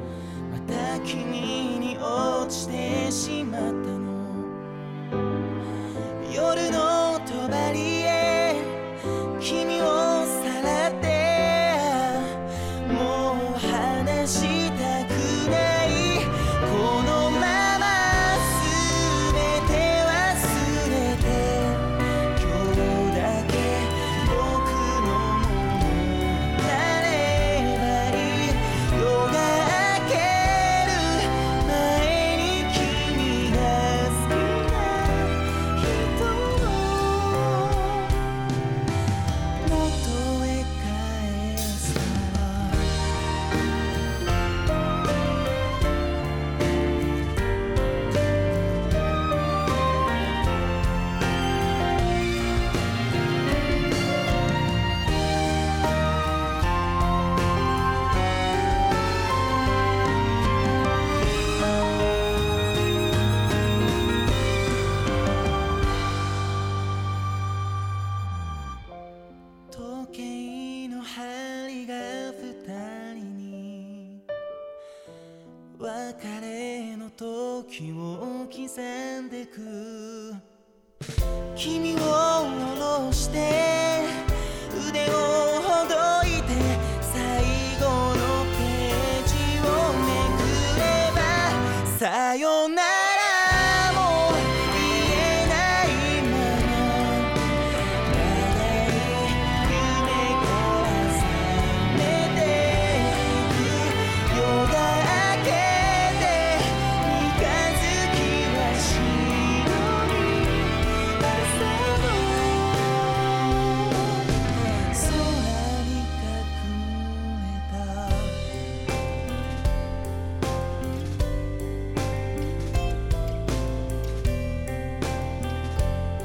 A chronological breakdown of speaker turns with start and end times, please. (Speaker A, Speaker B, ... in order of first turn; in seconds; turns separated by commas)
Speaker A: 0.5-4.6, Speaker A: 6.2-38.2, Speaker A: 39.6-43.0, Speaker A: 69.7-74.2, Speaker A: 75.7-80.4, Speaker A: 81.5-118.5